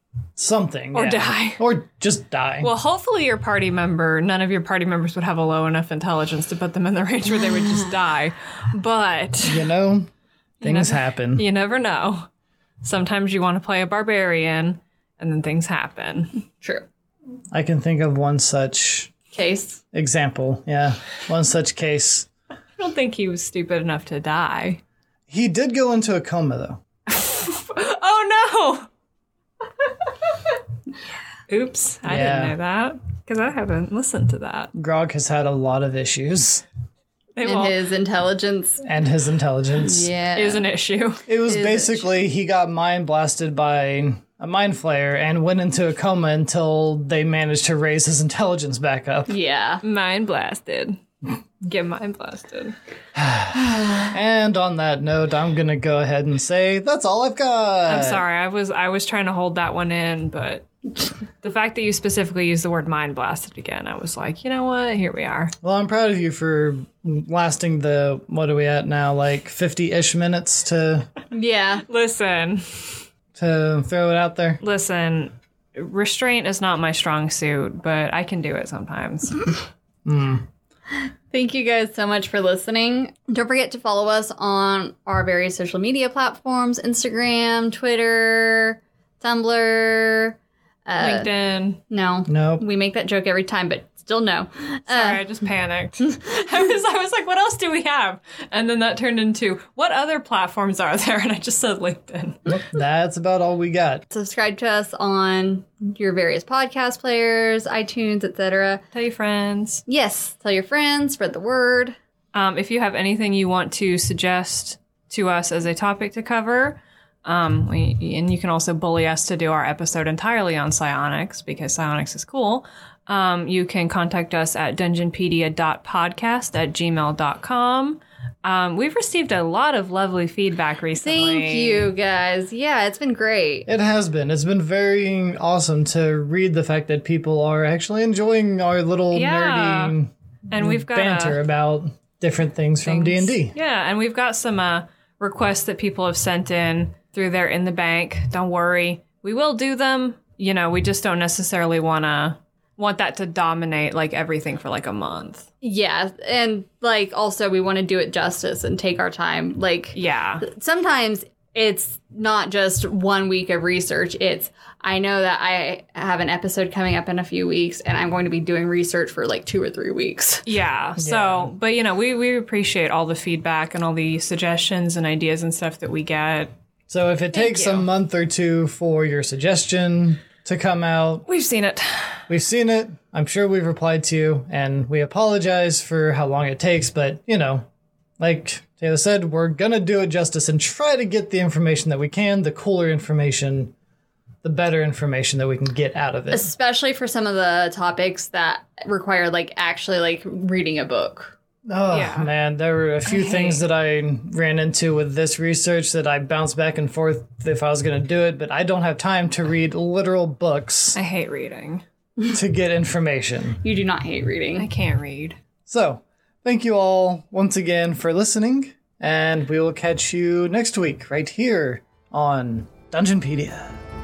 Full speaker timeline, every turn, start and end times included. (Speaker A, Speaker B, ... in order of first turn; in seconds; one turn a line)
Speaker A: 0.3-2.7
Speaker B: 0.9-1.6
Speaker B: 2.6-9.7
Speaker A: 9.4-10.1
Speaker A: 10.6-11.4
Speaker B: 10.6-12.3
Speaker B: 12.8-16.3
Speaker A: 17.5-19.1
Speaker C: 19.3-19.8
Speaker A: 19.9-22.3
Speaker B: 22.8-24.8
Speaker A: 25.3-26.8
Speaker B: 27.1-28.9
Speaker B: 29.8-30.6
Speaker B: 31.5-34.7
Speaker A: 32.0-32.5
Speaker A: 34.7-36.6
Speaker B: 37.4-37.7
Speaker C: 37.4-38.8
Speaker A: 38.8-40.1
Speaker C: 39.8-40.6
Speaker B: 40.3-41.2
Speaker A: 41.3-49.3
Speaker C: 41.5-42.1
Speaker C: 49.3-49.8
Speaker B: 49.8-51.0
Speaker B: 51.6-52.7
Speaker A: 53.1-58.2
Speaker B: 57.9-60.7
Speaker B: 61.4-65.5
Speaker A: 65.6-71.1
Speaker C: 71.3-71.8
Speaker B: 71.9-73.0
Speaker A: 73.3-74.6
Speaker B: 74.6-79.5
Speaker A: 80.0-80.4
Speaker C: 80.9-91.3
Speaker B: 91.0-91.8
Speaker C: 91.9-95.2
Speaker A: 92.3-92.6
Speaker B: 94.9-102.4
Speaker A: 102.5-104.0
Speaker C: 104.1-108.8
Speaker B: 108.9-109.8
Speaker C: 109.9-112.0
Speaker B: 112.3-131.9
Speaker C: 130.9-133.7
Speaker A: 133.7-143.5
Speaker B: 139.1-139.9
Speaker B: 140.5-141.4
Speaker B: 142.8-155.5
Speaker C: 155.6-170.4
Speaker B: 159.9-160.4
Speaker B: 170.4-176.5
Speaker A: 171.0-171.5
Speaker A: 176.9-181.2
Speaker B: 177.3-177.9
Speaker B: 181.3-182.2
Speaker A: 182.3-187.7
Speaker A: 188.2-193.7
Speaker A: 194.4-196.5
Speaker C: 196.3-201.3
Speaker A: 201.7-211.0
Speaker B: 201.9-202.3
Speaker B: 203.1-203.6
Speaker B: 210.9-211.8
Speaker A: 212.3-213.6
Speaker C: 213.6-214.7
Speaker B: 214.6-215.4
Speaker A: 215.7-223.8